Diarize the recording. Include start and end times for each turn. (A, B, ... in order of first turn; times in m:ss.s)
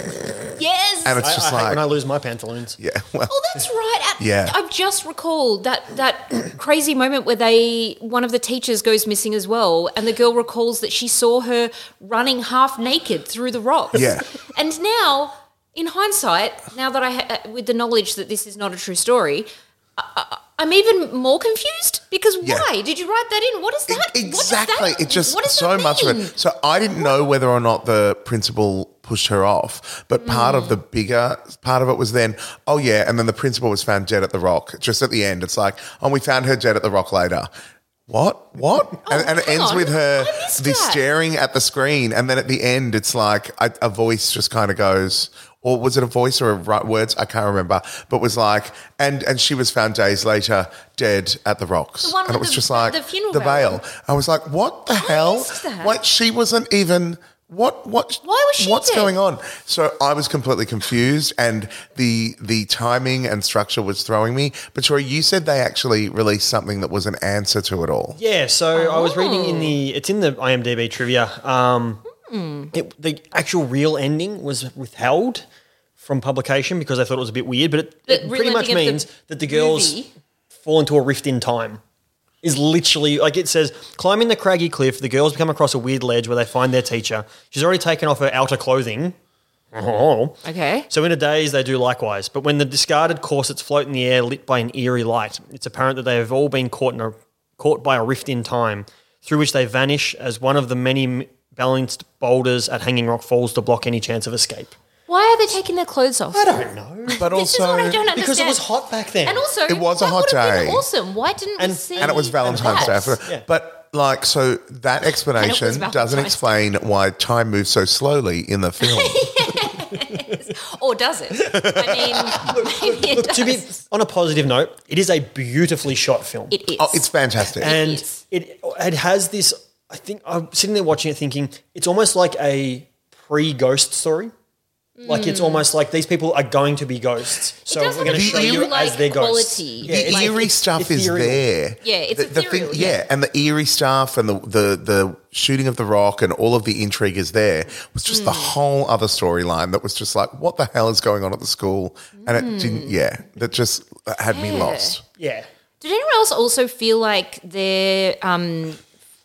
0:00.6-0:01.2 A
0:01.0-0:01.9 B
0:01.2-0:02.8 C
0:02.8-0:03.3 B
0:03.3-0:26.3 A
0:04.2-0:04.6 B
0:13.9-0:14.3 B
0:22.4-0:22.7 B
0:23.9-0:37.5 B
0:30.2-0:30.8 A
0:38.1-1:08.2 B
0:39.1-0:41.0 A
0:52.0-0:53.8 A
0:55.0-0:55.9 A
0:58.2-0:59.1 A
1:08.2-1:12.0 C
1:08.8-1:09.8 A
1:12.2-1:12.7 A
1:12.7-1:15.5 C
1:16.0-1:20.0 C
1:18.1-1:20.1 A
1:20.6-1:21.8 C
1:22.4-1:29.2 C
1:29.7-1:44.8 C
1:30.4-1:30.9 A
1:45.1-1:48.6 A
1:46.3-1:47.3 C
1:47.2-1:48.0 B
1:48.0-1:49.5 C
1:49.2-1:53.1 A
1:49.7-1:50.8 B
1:51.6-1:53.4 C
1:52.0-1:59.5 B
1:55.4-1:56.6 A
1:58.8-2:03.8 A
2:01.4-2:02.2 B
2:02.3-2:06.6 C
2:06.5-2:08.2 A
2:06.8-2:07.7 B
2:07.6-2:14.3 C
2:15.0-2:15.7 A
2:15.1-2:21.4 C
2:17.7-2:20.4 A
2:18.1-2:18.7 B
2:19.8-2:35.0 B
2:21.8-2:23.1 A
2:28.1-2:28.6 A
2:32.2-2:33.0 A
2:34.3-2:35.0 A
2:35.2-2:35.5 C
2:35.8-2:38.8 A